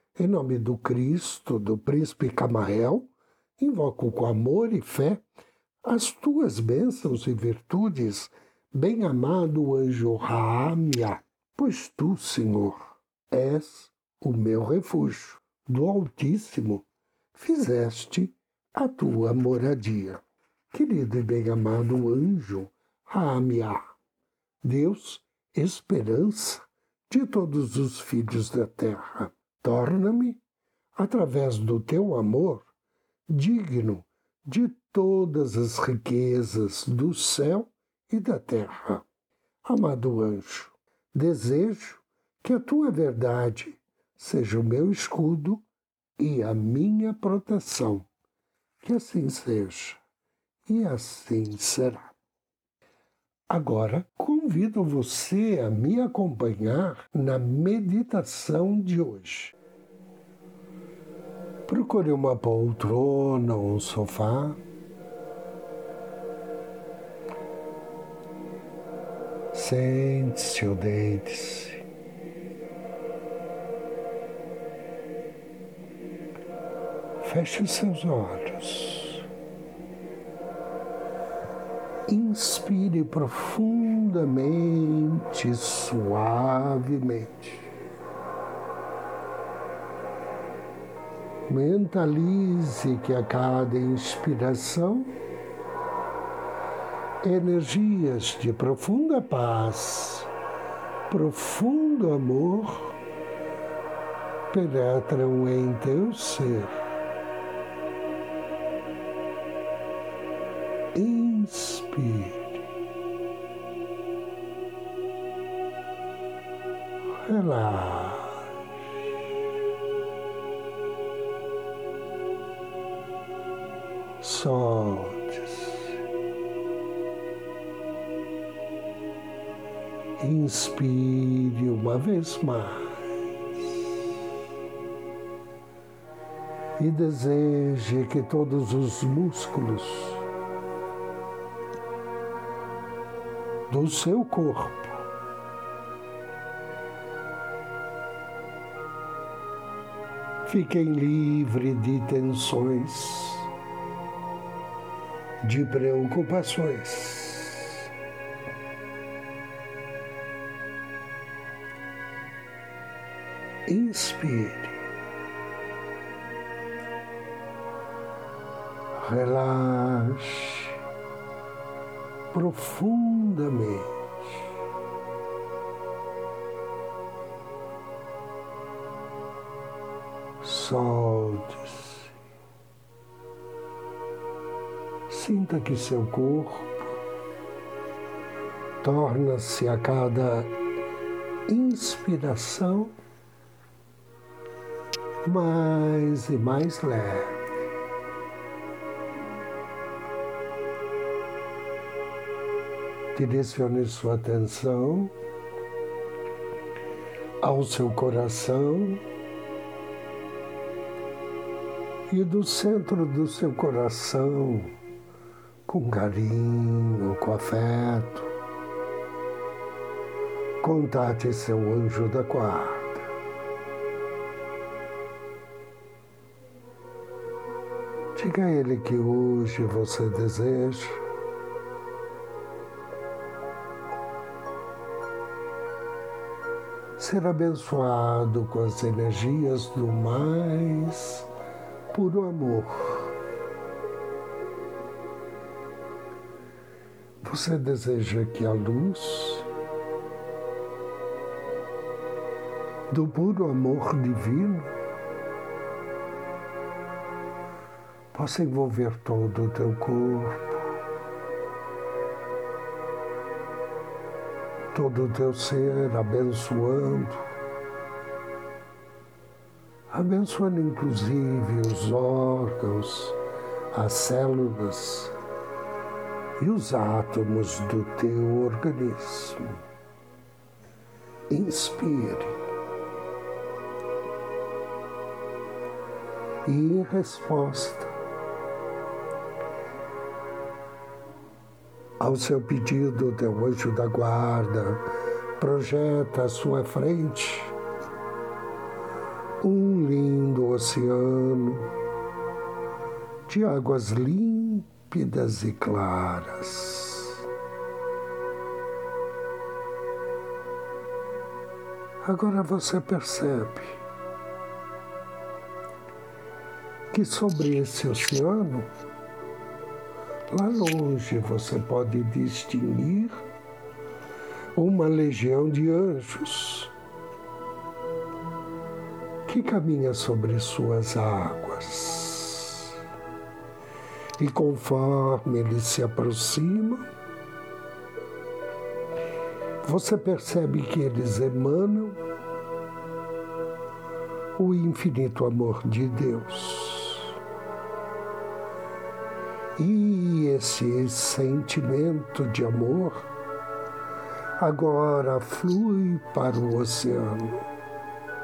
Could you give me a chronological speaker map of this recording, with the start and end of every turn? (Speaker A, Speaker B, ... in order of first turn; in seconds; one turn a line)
Speaker A: 0.2-5.2
Speaker A: 5.8-23.9
Speaker A: 24.6-30.4
Speaker A: 31.0-32.7
Speaker A: 33.3-39.0
Speaker A: 39.6-45.7
Speaker A: 46.2-48.1
Speaker A: 48.8-50.0
Speaker A: 50.7-52.2
Speaker A: 53.5-59.5
Speaker A: 61.7-64.6
Speaker A: 69.5-71.8
Speaker A: 77.2-79.3
Speaker A: 82.1-87.7
Speaker A: 91.5-95.2
Speaker A: 97.2-100.3
Speaker A: 101.1-103.0
Speaker A: 104.5-106.8
Speaker A: 110.9-112.6
Speaker A: 117.2-118.5
Speaker A: 124.2-125.8
Speaker A: 130.2-133.0
Speaker A: 136.8-140.2
Speaker A: 143.7-145.0
Speaker A: 150.5-153.5
Speaker A: 155.4-157.9
Speaker A: 163.7-164.8
Speaker A: 169.0-170.8
Speaker A: 172.3-174.0
Speaker A: 180.4-182.1
Speaker A: 185.1-186.9
Speaker A: 188.8-190.5
Speaker A: 191.5-193.0
Speaker A: 195.2-197.4
Speaker A: 203.1-205.1
Speaker A: 207.4-209.0
Speaker A: 212.1-214.7
Speaker A: 215.7-218.3
Speaker A: 220.6-223.1
Speaker A: 228.2-231.0
Speaker A: 237.0-241.3
Speaker A: 241.9-243.2
Speaker A: 247.2-249.5
Speaker A: 252.9-254.7
Speaker A: 258.1-260.6
Speaker A: 264.7-267.2
Speaker A: 269.9-273.2
Speaker A: 273.7-275.1
Speaker A: 276.4-279.6
Speaker A: 281.3-282.4
Speaker A: 286.4-287.9
Speaker A: 292.0-297.6
Speaker A: 299.4-301.8
Speaker A: 303.3-307.2
Speaker A: 312.0-313.8
Speaker A: 316.9-318.7
Speaker A: 320.3-323.2
Speaker A: 324.6-326.7
Speaker A: 329.3-332.8
Speaker A: 334.2-336.9
Speaker A: 339.6-342.0
Speaker A: 344.4-347.2
Speaker A: 349.6-353.1
Speaker A: 354.4-357.5